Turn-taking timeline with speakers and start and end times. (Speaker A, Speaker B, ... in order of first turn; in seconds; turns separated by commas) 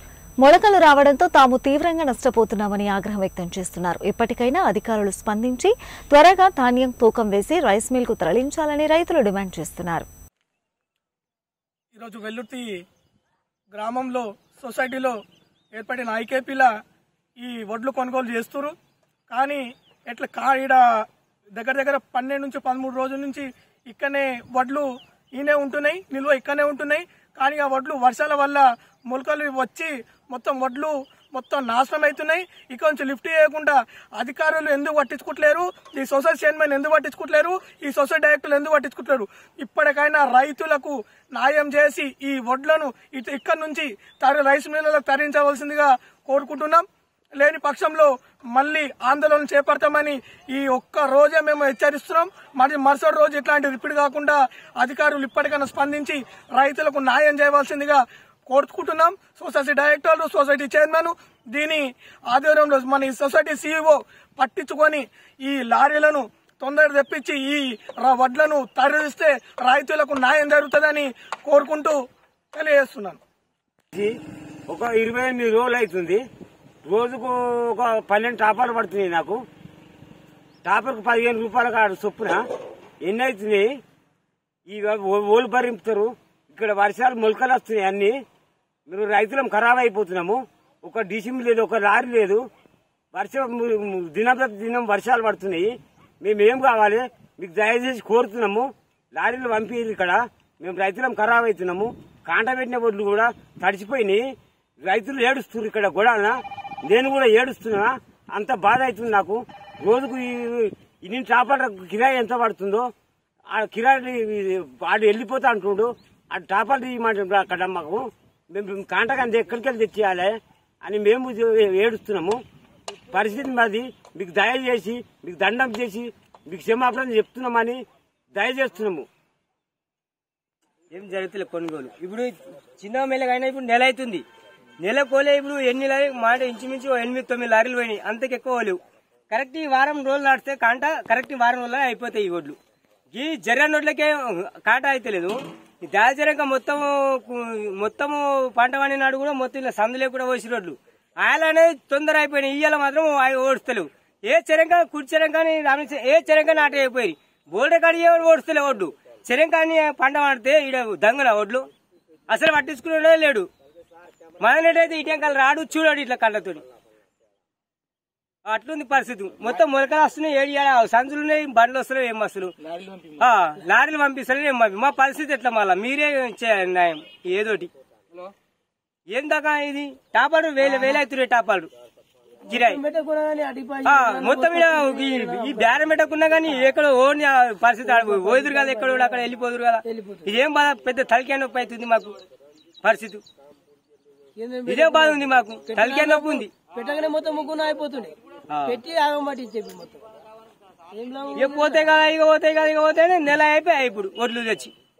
Speaker A: 0.4-10.1, Speaker B: 11.9-12.7, Speaker B: 13.7-15.2, Speaker B: 15.7-16.7, Speaker B: 17.4-18.7, Speaker B: 19.3-20.8, Speaker B: 21.6-46.8, Speaker B: 47.4-72.0, Speaker B: 72.5-73.2, Speaker C: 74.7-76.2, Speaker C: 76.8-79.4, Speaker C: 80.7-82.4, Speaker C: 83.1-83.7, Speaker C: 84.7-88.2, Speaker C: 88.9-92.4, Speaker C: 93.1-104.2, Speaker C: 104.8-112.9, Speaker C: 113.5-122.4, Speaker C: 123.1-127.8, Speaker C: 128.4-129.1, Speaker D: 130.9-134.2, Speaker D: 134.8-138.8, Speaker D: 139.3-142.6, Speaker D: 143.1-161.7, Speaker D: 162.3-163.5, Speaker D: 164.4-166.6, Speaker D: 168.5-172.5, Speaker D: 173.2-177.7, Speaker D: 179.1-181.7, Speaker E: 180.7-181.0, Speaker E: 182.5-185.7, Speaker D: 182.5-182.8, Speaker D: 183.8-192.2, Speaker E: 187.9-189.1, Speaker E: 189.8-190.3, Speaker D: 192.8-193.2, Speaker E: 194.4-200.0, Speaker D: 194.7-196.5, Speaker D: 198.5-198.8, Speaker E: 200.9-202.0, Speaker D: 201.3-204.7